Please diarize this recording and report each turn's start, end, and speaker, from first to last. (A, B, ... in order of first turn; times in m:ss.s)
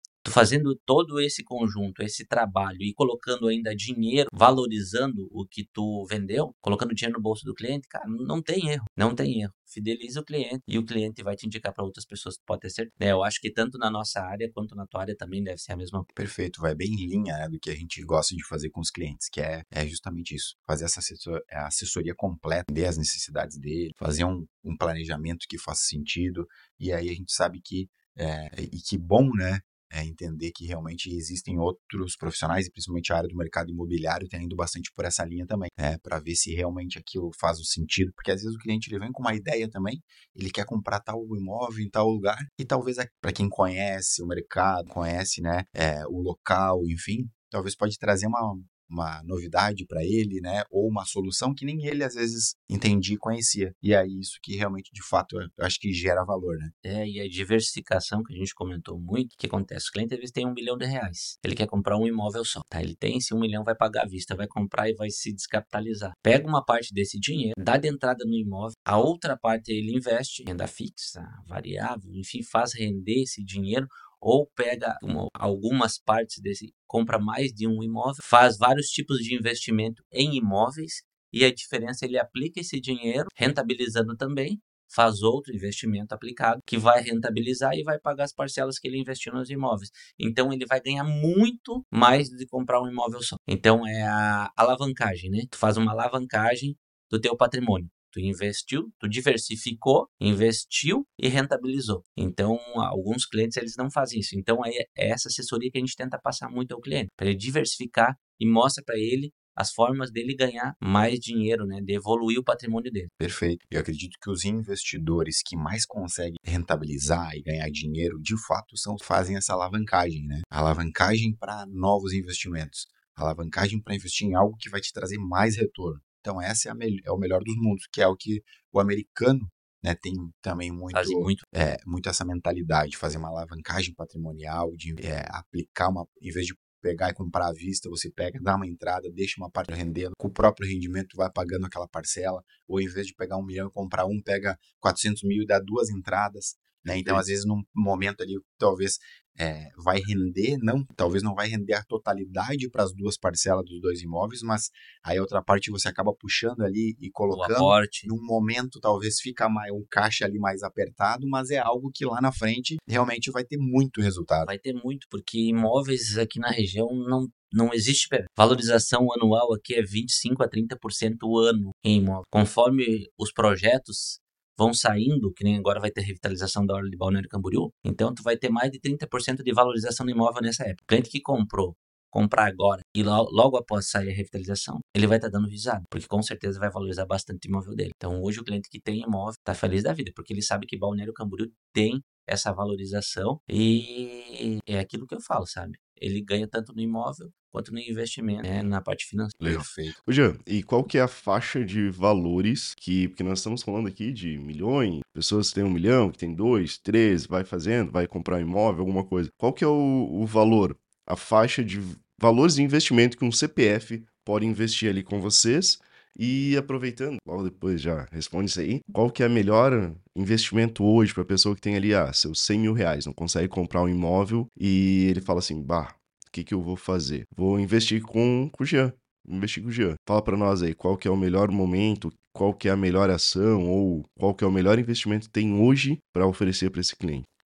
0:00.2-0:16.1 A
0:16.1-0:56.7 B
0:56.8-1:53.1 A
1:53.2-2:44.5 B
2:10.9-2:11.4 A
2:26.8-2:27.2 C
2:37.3-2:38.1 A
2:44.4-3:19.4 A
3:19.4-3:57.2 C
3:19.4-3:20.0 B